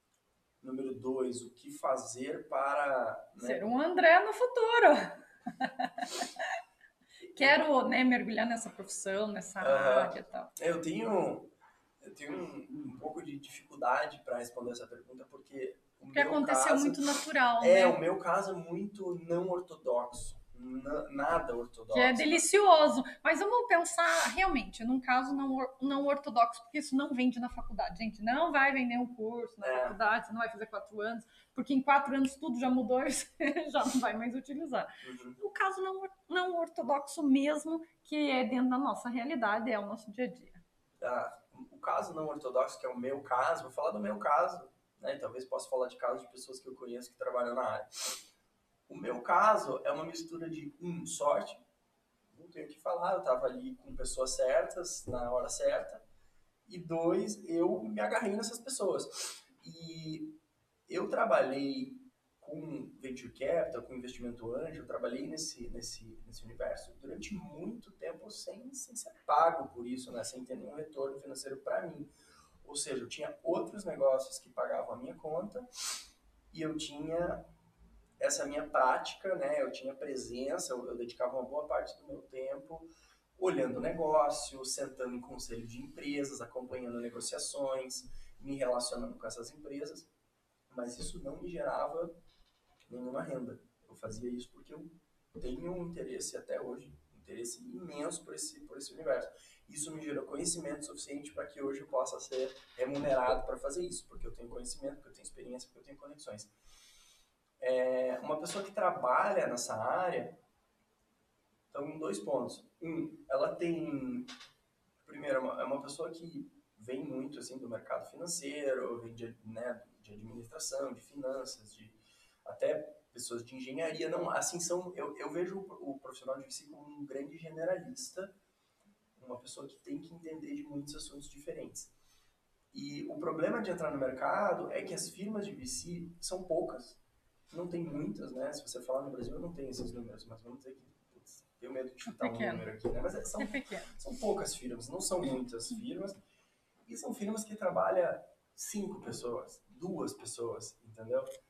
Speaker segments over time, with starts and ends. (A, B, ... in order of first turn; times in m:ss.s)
0:00.6-0:03.7 A
0:03.4-0:06.5 B
0:07.2-0:07.6 A
0:07.3-0:10.5 B
0:09.6-0:17.1 A
0:16.1-0:18.0 B
0:17.6-0:22.4 A
0:21.9-0:40.6 B
0:29.6-0:30.0 A
0:35.0-0:35.4 A
0:41.0-0:48.0 A
0:48.9-0:51.6 A
0:52.3-0:56.0 A
0:56.7-1:12.1 A
1:12.6-1:15.7 A
1:16.5-1:17.4 A
1:18.2-1:30.1 A
1:30.7-1:32.2 A
1:32.9-1:46.5 A
1:47.6-1:50.4 A
1:51.7-1:54.3 A
1:55.0-2:08.3 A
2:09.2-2:11.9 A
2:12.7-2:26.2 A
2:22.1-2:22.6 B
2:23.4-2:23.9 B
2:26.9-2:31.3 A